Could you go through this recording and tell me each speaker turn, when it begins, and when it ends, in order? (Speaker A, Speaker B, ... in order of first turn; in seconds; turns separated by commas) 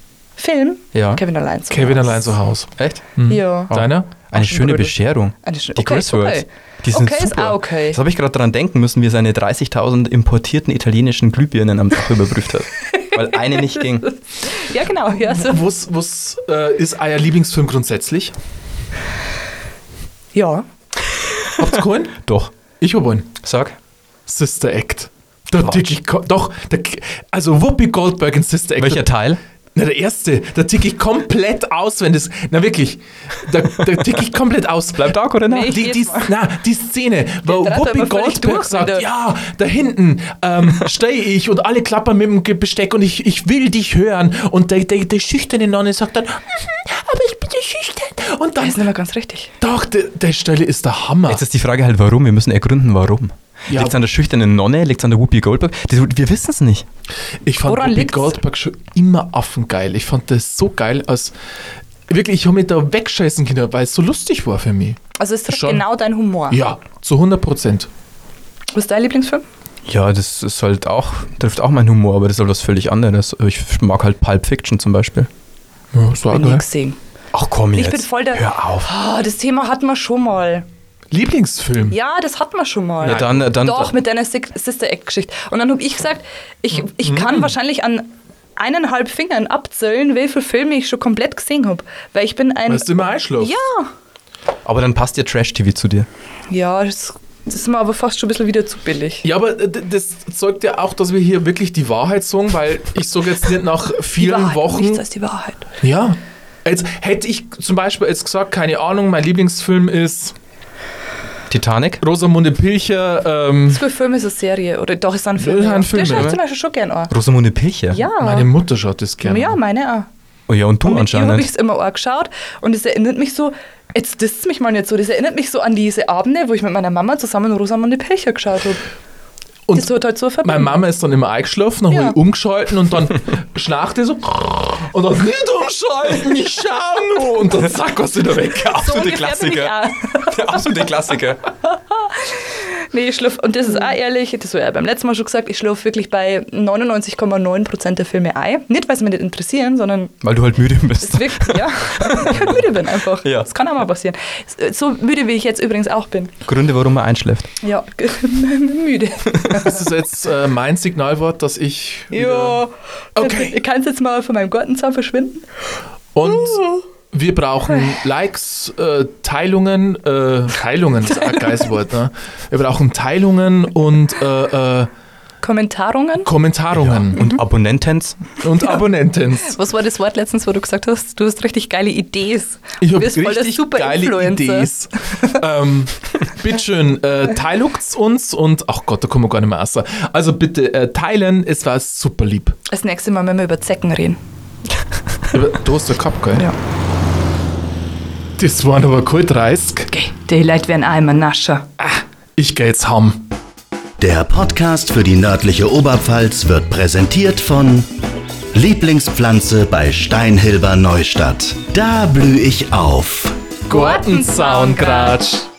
Speaker A: 0.4-2.3, Speaker B: 0.9-1.2, Speaker C: 1.7-4.3, Speaker B: 2.8-3.2, Speaker A: 3.3-3.8, Speaker B: 3.7-14.1, Speaker A: 4.4-4.9, Speaker A: 5.4-8.0, Speaker A: 13.5-15.6, Speaker C: 15.2-18.3, Speaker A: 20.3-20.6, Speaker C: 21.6-22.2, Speaker B: 21.8-22.5, Speaker C: 22.8-23.3, Speaker B: 23.4-23.8, Speaker C: 24.3-29.1, Speaker B: 28.8-29.4, Speaker C: 29.8-48.9, Speaker B: 35.0-35.8, Speaker A: 35.5-36.4, Speaker A: 37.5-39.1, Speaker A: 48.6-49.5, Speaker C: 49.6-51.4, Speaker B: 51.3-56.9, Speaker C: 53.7-54.0, Speaker C: 57.5-61.3, Speaker A: 57.6-58.4, Speaker C: 62.1-65.9, Speaker A: 65.2-66.6, Speaker C: 66.5-67.9, Speaker A: 68.7-69.4, Speaker B: 69.9-75.3, Speaker C: 75.9-76.6, Speaker A: 76.3-77.0, Speaker B: 77.3-78.9, Speaker A: 77.8-80.7, Speaker C: 81.1-82.0, Speaker A: 81.9-93.9, Speaker B: 83.0-84.0, Speaker C: 83.0-83.5, Speaker C: 87.0-87.5, Speaker C: 92.7-93.5, Speaker B: 94.7-96.1, Speaker A: 96.5-99.3, Speaker C: 99.2-105.0, Speaker A: 104.2-105.7, Speaker C: 105.8-110.3, Speaker B: 111.5-112.0, Speaker C: 112.0-113.8, Speaker A: 113.7-117.1, Speaker C: 115.4-116.3, Speaker B: 116.0-116.4, Speaker B: 117.1-118.0, Speaker A: 117.9-118.5, Speaker C: 118.2-119.6, Speaker A: 119.2-120.1, Speaker B: 120.5-121.5, Speaker A: 120.8-128.8, Speaker C: 129.7-138.8, Speaker A: 129.8-130.8, Speaker A: 131.9-132.2, Speaker B: 138.6-141.4, Speaker A: 138.7-140.6, Speaker A: 141.7-150.2, Speaker B: 150.2-152.7, Speaker A: 151.0-156.3, Speaker B: 153.2-153.5, Speaker B: 156.5-157.5, Speaker A: 157.6-159.8, Speaker C: 159.5-163.6, Speaker A: 162.1-165.4, Speaker C: 166.2-174.9, Speaker A: 166.5-166.8, Speaker A: 175.4-176.3, Speaker C: 176.2-177.2, Speaker B: 176.8-178.2, Speaker C: 178.4-179.6, Speaker A: 178.6-185.3, Speaker C: 182.8-192.6, Speaker A: 192.7-194.2, Speaker C: 195.3-196.5, Speaker C: 198.4-199.9, Speaker A: 199.9-201.7, Speaker C: 201.8-203.2, Speaker D: 204.0-207.9, Speaker D: 208.5-213.4, Speaker C: 213.7-215.5, Speaker A: 213.7-215.2